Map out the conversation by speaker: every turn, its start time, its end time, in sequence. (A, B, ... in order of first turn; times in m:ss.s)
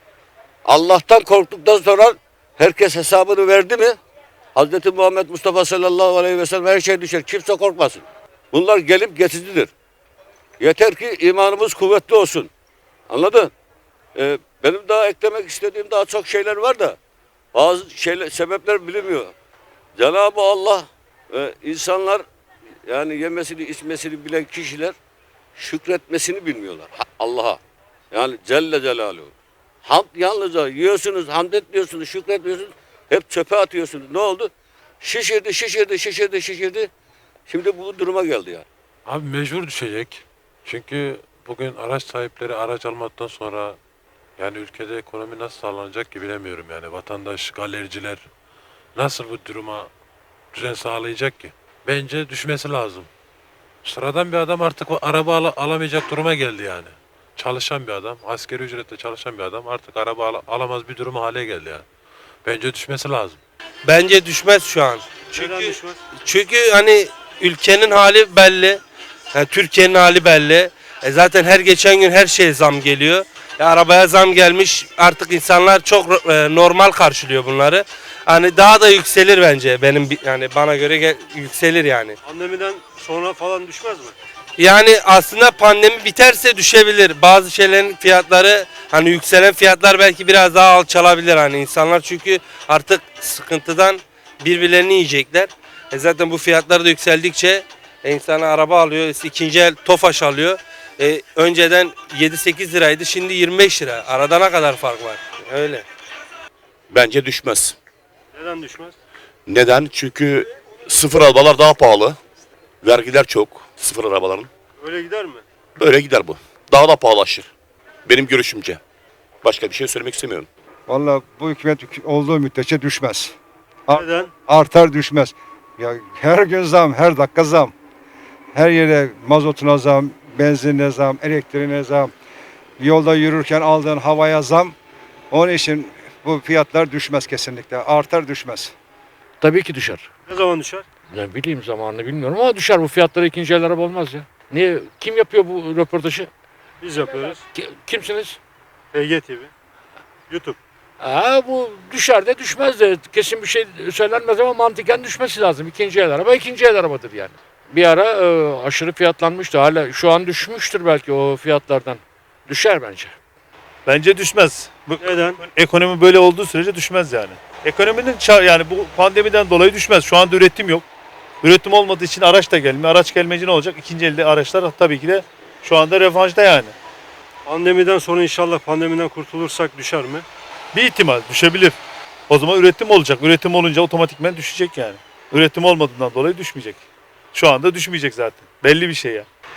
0:00.6-0:04.0 A
0:04.6-0:09.7 A
0:10.6-0:12.5 A
0:13.1-0:13.5 A
0:14.2-0:17.0 A
0:17.5-0:19.3 A
0:20.0-0:22.2 A
0:22.8-0:24.9 A
0:25.6-0:27.6 A
0:28.1-0:29.3 A
0:29.8-0:34.5 A
0:35.0-0:36.9 A
0:37.5-0:38.6 A
0:39.0-0:43.8 B
0:44.4-0:48.2 B
0:49.0-0:49.9 B
0:50.5-0:53.1 B
0:53.8-1:01.8 B
1:02.4-1:03.4 B
1:03.8-1:08.8 C
1:05.3-1:06.0 D
1:09.3-1:22.2 C
1:22.2-1:24.2 D
1:24.6-1:45.8 C
1:46.9-1:47.7 E
1:48.3-1:49.0 D
1:49.5-1:52.1 E
1:52.8-1:54.4 E
1:54.8-1:55.4 D
1:55.8-1:57.4 E
1:58.1-1:58.8 E
1:59.5-2:00.4 E
2:00.9-2:03.3 F
2:03.9-2:07.7 F
2:03.9-2:04.3 D
2:08.5-2:12.1 F
2:12.8-2:14.7 F
2:15.3-2:18.7 F
2:19.4-2:20.1 G
2:20.3-2:20.8 D
2:21.1-2:26.3 G
2:26.8-2:27.4 D
2:27.5-2:28.4 G
2:28.9-2:29.5 D
2:30.3-2:30.6 D
2:31.0-2:43.1 G
2:43.8-2:50.8 H
2:45.0-2:45.4 D
2:51.4-2:56.7 H
2:57.4-3:00.2 D
3:00.7-3:01.8 H
3:02.3-3:06.8 H
3:07.3-3:09.3 H